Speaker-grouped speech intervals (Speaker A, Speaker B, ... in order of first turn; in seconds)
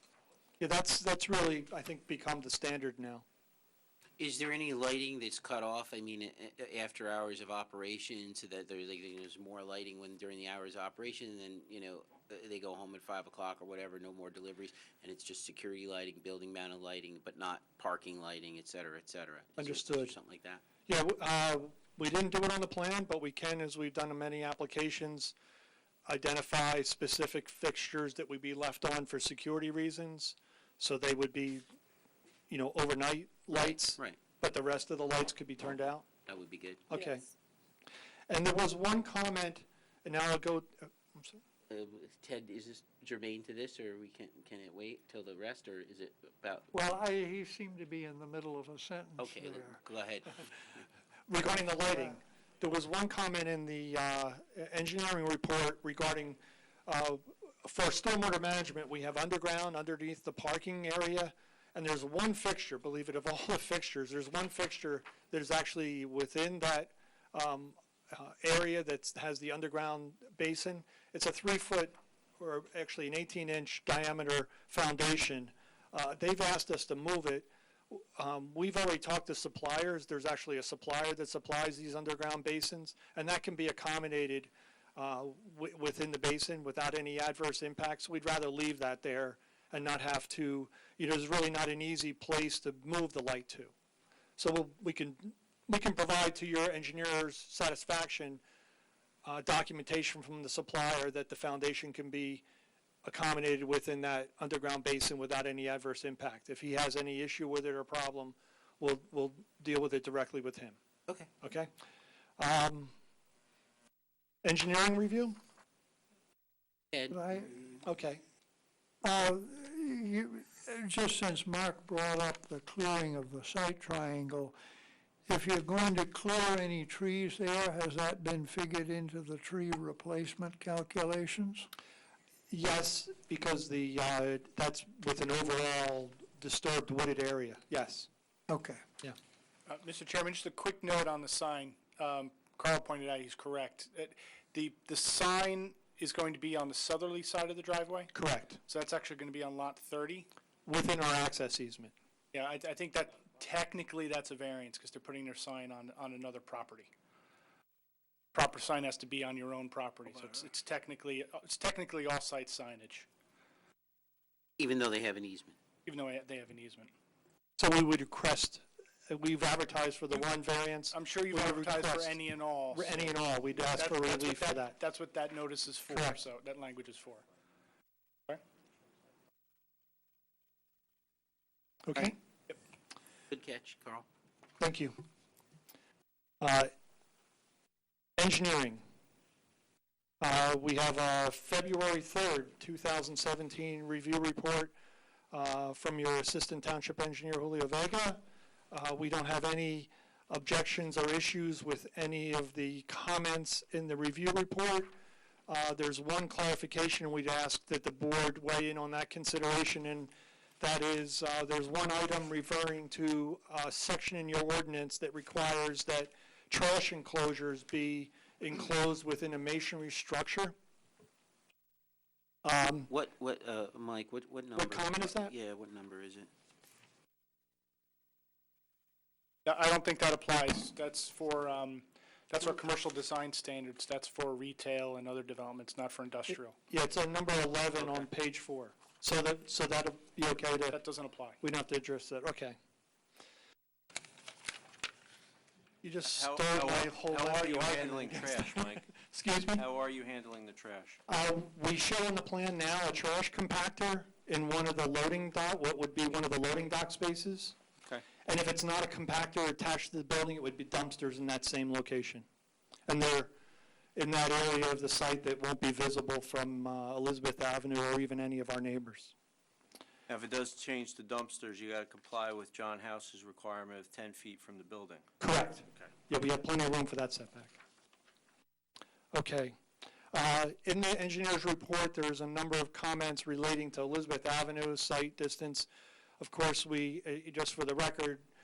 Speaker A: 0.6-3.2, 19.6-20.1, 20.9-25.3, 26.1-31.6, 32.5-36.0, 36.9-37.2, 38.3-41.4, 51.3-93.7, 94.4-98.4, 99.2-102.4, 103.0-110.8, 111.4-111.7, 112.4-112.9, 114.4-115.4, 117.8-118.2, 132.5-138.1, 148.1-148.6, 150.7-151.9, 167.6-172.2, 172.7-174.8, 175.9-176.2, 181.9-182.1, 184.6-184.9, 186.4-186.7, 188.2-188.8, 190.2-194.7, 195.3-204.9, 205.5-220.5, 222.4-222.9, 224.6-225.3, 236.7-240.8, 241.4-242.6, 245.8-249.7, 251.1-257.5, 258.2-262.2, 262.9-263.3, 263.9-269.1, 275.2-277.6, 279.1-279.5, 280.1-285.7, 286.2-288.2
Speaker B: 4.2-20.6, 33.5-34.2, 36.3-37.0, 41.7-46.7, 49.2-50.6, 116.9-117.2, 164.6-165.6, 183.3-184.1, 222.9-226.3
Speaker C: 46.7-49.8, 117.1-117.6, 119.0-124.6, 125.3-131.7, 138.5-138.8
Speaker D: 139.7-148.1, 148.7-150.3, 152.3-156.9, 158.3-163.1, 165.8-166.9, 170.9-173.2, 173.7-177.2, 181.9-182.5, 229.4-236.6, 240.7-241.4
Speaker E: 246.1-248.9, 249.5-251.0, 270.1-275.1